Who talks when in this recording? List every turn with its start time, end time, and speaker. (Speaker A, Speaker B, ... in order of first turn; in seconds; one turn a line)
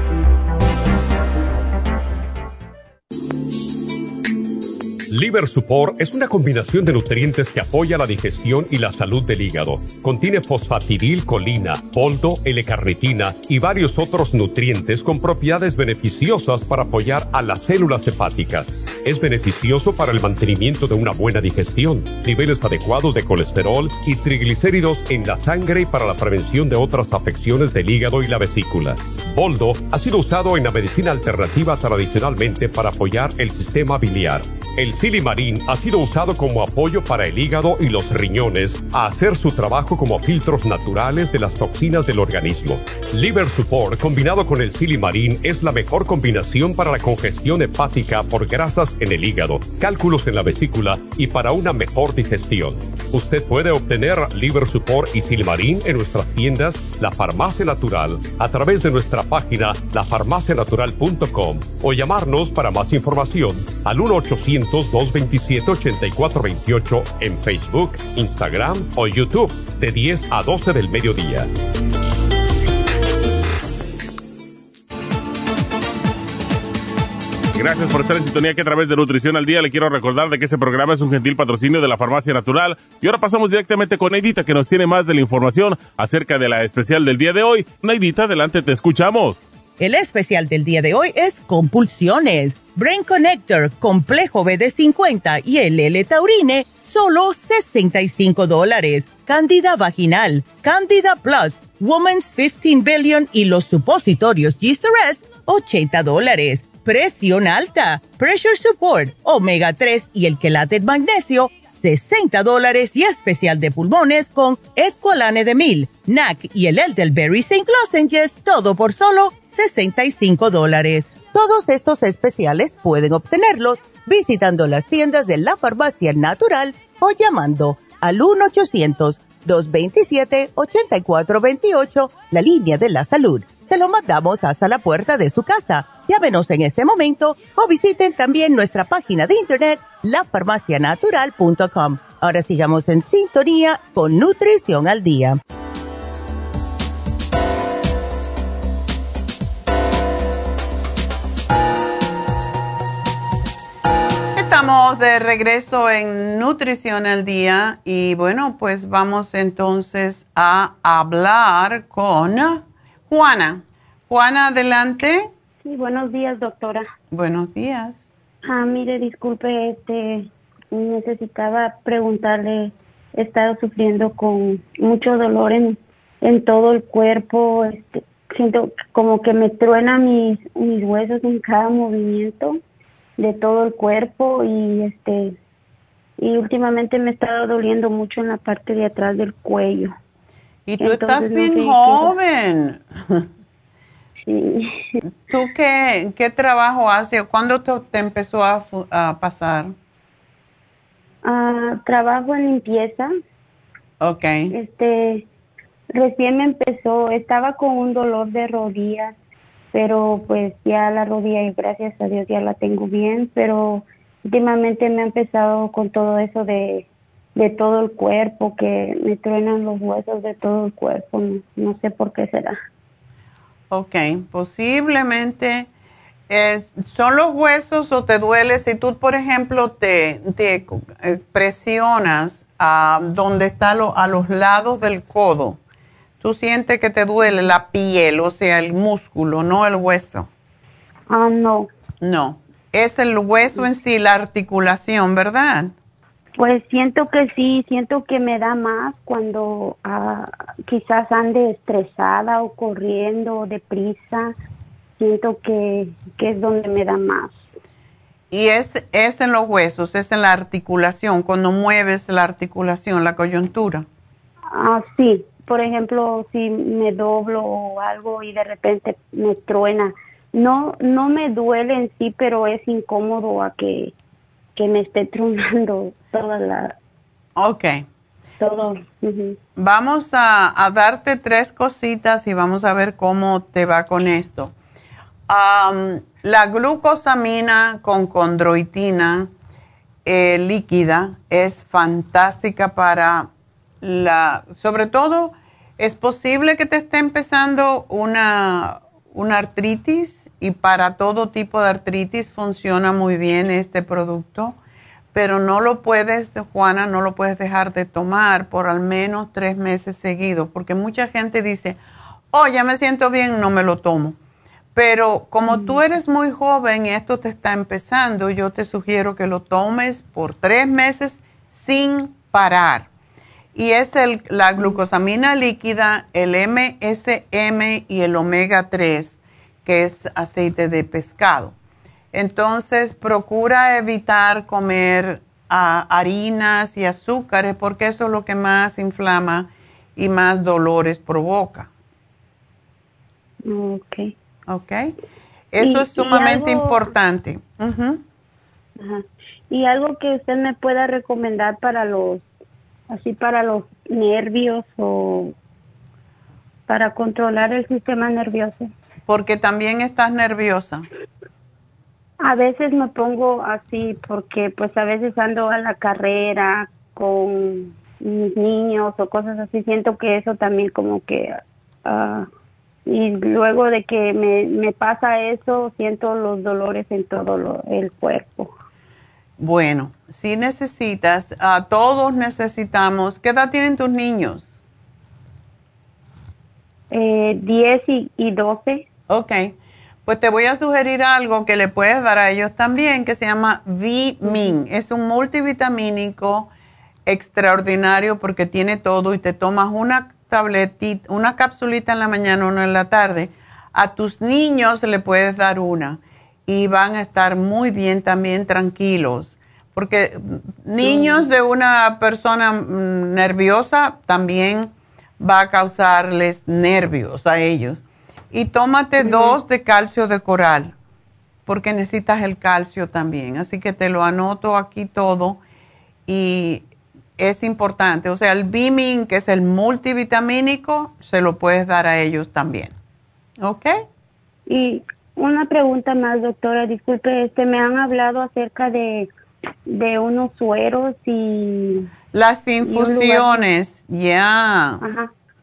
Speaker A: 5.1-71.5
Speaker B: 77.5-89.4
Speaker C: 89.8-145.4
Speaker D: 154.4-165.3
Speaker E: 165.6-166.9
Speaker D: 167.1-168.1
Speaker E: 168.5-182.6
Speaker E: 183.2-185.4
Speaker E: 186.2-189.9
Speaker D: 190.7-193.3
Speaker E: 190.8-192.1
Speaker E: 194.3-195.0
Speaker D: 195.3-199.7
Speaker E: 201.2-203.1
Speaker D: 204.0-204.5
Speaker E: 204.5-205.3
Speaker E: 205.9-209.2
Speaker E: 209.7-222.6
Speaker D: 223.7-225.7
Speaker D: 226.3-235.6
Speaker D: 236.2-240.3
Speaker E: 241.1-241.7
Speaker D: 242.0-245.7
Speaker E: 246.4-254.3
Speaker E: 255.0-257.4
Speaker D: 258.3-263.9
Speaker E: 264.5-273.9
Speaker E: 274.6-276.8
Speaker D: 277.4-277.9
Speaker E: 278.4-279.4
Speaker D: 279.6-284.5
Speaker D: 285.3-289.3
Speaker D: 290.1-293.3
Speaker D: 293.8-304.6
Speaker D: 305.1-311.8
Speaker D: 312.3-314.2
Speaker D: 314.8-322.9
Speaker E: 315.5-315.8
Speaker D: 323.6-331.6
Speaker D: 332.1-341.7
Speaker E: 343.4-344.1
Speaker D: 344.5-344.9
Speaker D: 345.5-348.0
Speaker E: 345.6-346.8
Speaker E: 348.8-352.3
Speaker E: 352.9-355.4
Speaker E: 356.7-358.7
Speaker D: 359.1-360.9
Speaker E: 362.2-372.3
Speaker E: 372.9-378.5
Speaker D: 379.4-384.6
Speaker E: 386.9-388.9
Speaker D: 389.1-389.6
Speaker D: 390.1-396.5
Speaker D: 397.1-420.8
Speaker E: 410.8-411.3
Speaker E: 419.0-419.4
Speaker D: 421.5-425.4
Speaker D: 426.1-426.7
Speaker D: 427.2-432.8
Speaker D: 433.4-433.7
Speaker E: 434.5-439.1
Speaker E: 439.7-441.9
Speaker D: 442.1-444.8
Speaker E: 442.6-443.4
Speaker E: 444.8-445.1